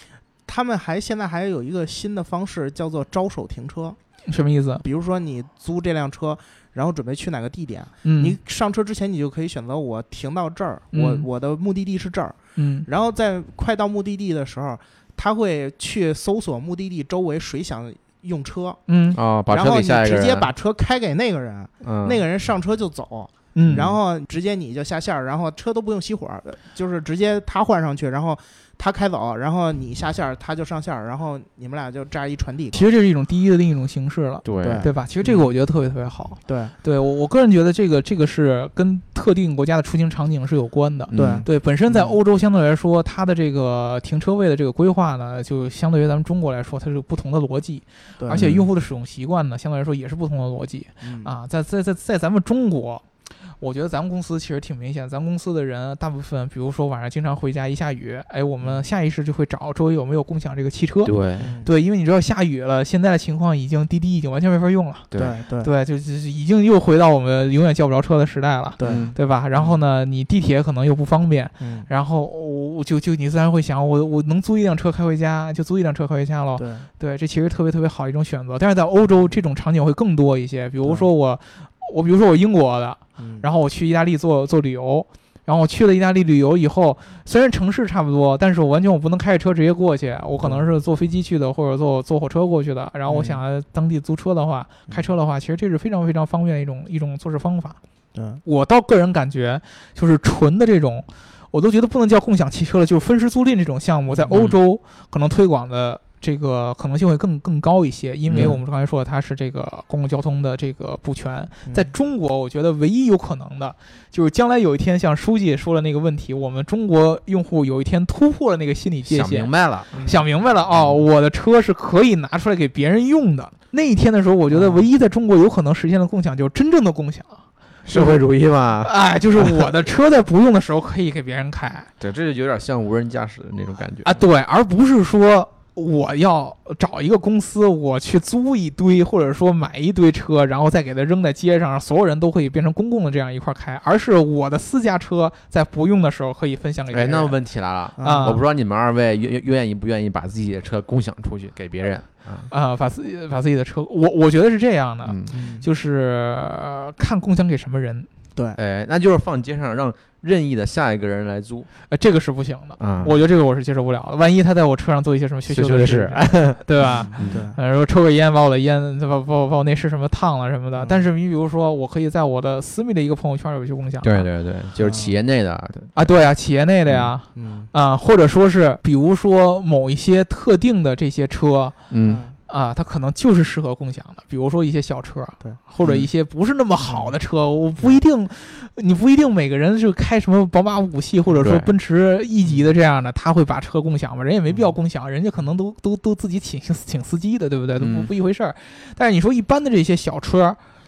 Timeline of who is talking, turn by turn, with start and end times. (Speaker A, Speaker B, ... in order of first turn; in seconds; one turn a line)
Speaker A: 0.5-4.0
Speaker B: 4.3-4.8
Speaker A: 4.8-18.8
Speaker B: 8.0-8.3
Speaker B: 10.9-11.2
Speaker B: 12.6-12.9
Speaker B: 18.9-19.2
Speaker C: 19.1-20.5
Speaker A: 19.5-32.9
Speaker C: 21.8-22.2
Speaker B: 23.5-23.9
Speaker C: 23.6-23.9
Speaker B: 32.7-53.0
Speaker C: 34.4-34.9
Speaker A: 34.6-35.5
Speaker A: 36.5-36.7
Speaker C: 41.1-41.5
Speaker A: 41.1-42.1
Speaker A: 48.2-48.5
Speaker C: 48.3-48.6
Speaker A: 51.0-51.3
Speaker B: 53.6-65.1
Speaker C: 61.0-61.5
Speaker A: 61.4-61.7
Speaker A: 65.1-65.7
Speaker B: 65.6-97.8
Speaker A: 68.8-69.1
Speaker C: 68.8-69.2
Speaker A: 71.6-71.9
Speaker A: 76.6-76.9
Speaker A: 83.2-83.4
Speaker A: 93.1-93.4
Speaker A: 98.1-98.4
Speaker B: 98.4-127.4
Speaker C: 104.3-104.5
Speaker C: 108.3-108.5
Speaker A: 108.3-108.6
Speaker C: 119.1-121.0
Speaker A: 119.9-120.2
Speaker C: 127.8-128.9
Speaker B: 127.9-128.2
Speaker B: 128.8-131.9
Speaker C: 132.0-134.2
Speaker B: 134.0-147.4
Speaker C: 146.9-152.5
Speaker A: 148.0-148.4
Speaker B: 148.0-148.4
Speaker B: 152.5-158.1
Speaker C: 155.0-155.3
Speaker A: 155.3-155.7
Speaker C: 158.5-161.7
Speaker B: 161.9-174.3
Speaker C: 162.8-163.1
Speaker C: 165.5-167.4
Speaker A: 166.8-167.6
Speaker A: 170.8-171.0
Speaker C: 174.0-176.2
Speaker A: 174.8-175.1
Speaker B: 175.9-181.7
Speaker A: 177.3-177.7
Speaker C: 181.9-182.2
Speaker A: 182.1-182.3
Speaker B: 182.5-200.6
Speaker A: 186.8-187.1
Speaker C: 191.3-191.7
Speaker A: 192.4-192.7
Speaker A: 194.5-194.8
Speaker C: 197.8-198.1